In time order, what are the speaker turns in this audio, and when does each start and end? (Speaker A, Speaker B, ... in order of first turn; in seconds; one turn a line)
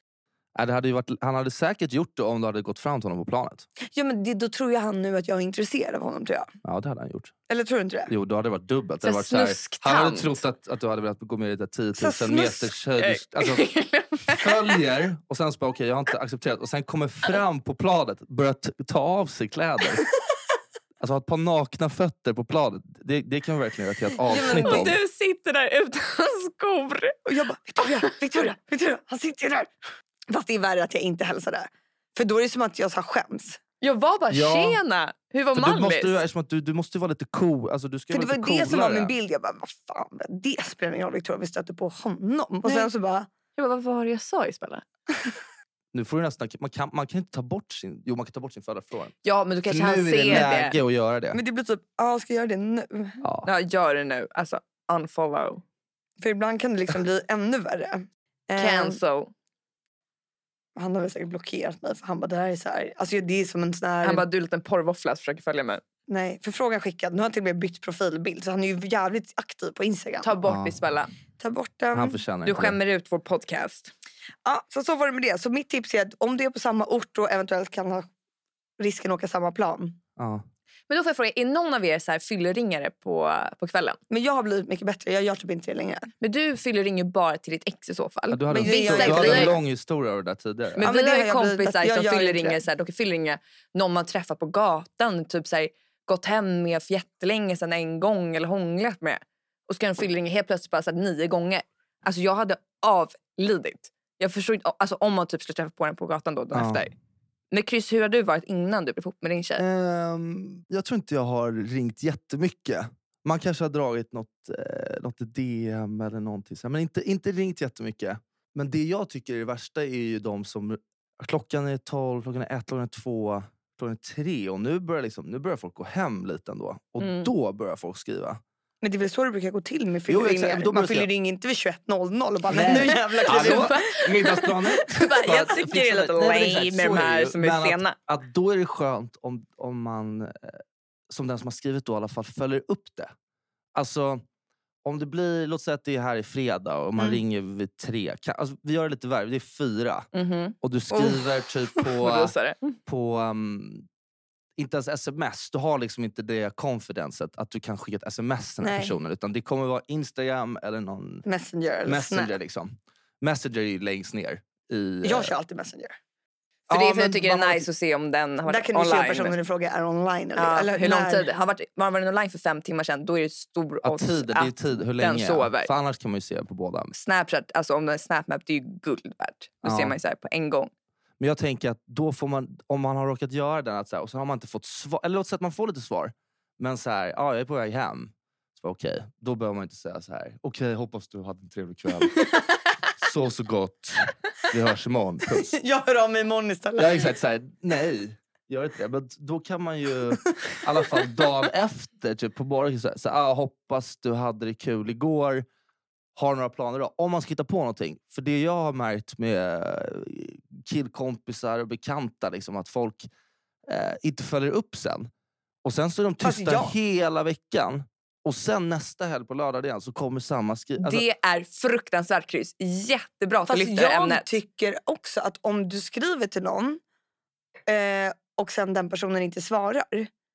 Speaker A: 0.5-3.7
Speaker B: 3.9-6.5
Speaker A: 6.6-7.3
Speaker B: 7.5-8.1
Speaker A: 8.1-13.6
Speaker C: 9.0-10.4
Speaker B: 11.9-12.7
Speaker C: 13.0-14.7
Speaker A: 14.3-20.0
Speaker A: 21.0-24.9
Speaker B: 24.3-24.9
Speaker C: 24.3-27.2
Speaker B: 27.2-29.7
Speaker B: 30.3-33.6
Speaker C: 33.8-36.2
Speaker A: 34.3-34.8
Speaker A: 35.5-39.1
Speaker B: 38.1-43.3
Speaker C: 42.6-42.9
Speaker C: 43.5-44.8
Speaker A: 45.9-49.1
Speaker C: 49.2-50.8
Speaker A: 49.6-51.4
Speaker B: 51.3-53.2
Speaker A: 53.2-53.5
Speaker C: 53.4-55.6
Speaker B: 56.2-59.0
Speaker C: 58.6-59.3
Speaker B: 60.8-64.2
Speaker C: 64.0-65.8
Speaker B: 66.1-70.3
Speaker C: 70.2-71.1
Speaker A: 70.4-70.8
Speaker B: 71.4-72.2
Speaker A: 71.9-72.8
Speaker C: 72.4-73.9
Speaker B: 74.4-78.1
Speaker B: 78.8-80.0
Speaker A: 80.2-80.4
Speaker C: 80.9-84.0
Speaker B: 84.1-86.1
Speaker C: 86.2-89.6
Speaker A: 88.3-90.9
Speaker B: 88.5-89.6
Speaker C: 90.8-106.9
Speaker B: 90.8-92.6
Speaker A: 106.5-106.8
Speaker C: 107.5-109.6
Speaker A: 109.6-128.4
Speaker C: 127.0-127.3
Speaker B: 128.8-133.8
Speaker A: 130.1-131.1
Speaker A: 132.5-143.1
Speaker C: 132.5-137.9
Speaker A: 143.7-144.2
Speaker A: 144.8-150.1
Speaker C: 150.1-150.6
Speaker A: 150.6-152.3
Speaker B: 150.9-151.2
Speaker C: 152.0-152.6
Speaker A: 152.8-153.8
Speaker A: 154.6-161.2
Speaker B: 158.6-158.9
Speaker B: 161.2-162.3
Speaker A: 161.8-165.3
Speaker B: 165.0-165.9
Speaker A: 166.7-167.7
Speaker C: 166.7-169.3
Speaker B: 168.5-171.3
Speaker C: 170.3-175.7
Speaker A: 173.8-176.9
Speaker C: 176.9-180.7
Speaker A: 179.6-179.9
Speaker A: 181.2-192.2
Speaker A: 193.0-195.6
Speaker B: 195.5-197.1
Speaker A: 196.8-205.4
Speaker A: 206.1-213.1
Speaker A: 213.7-215.1
Speaker A: 215.6-221.0
Speaker B: 216.2-216.7
Speaker C: 220.8-224.3
Speaker B: 223.5-226.8
Speaker B: 227.7-230.1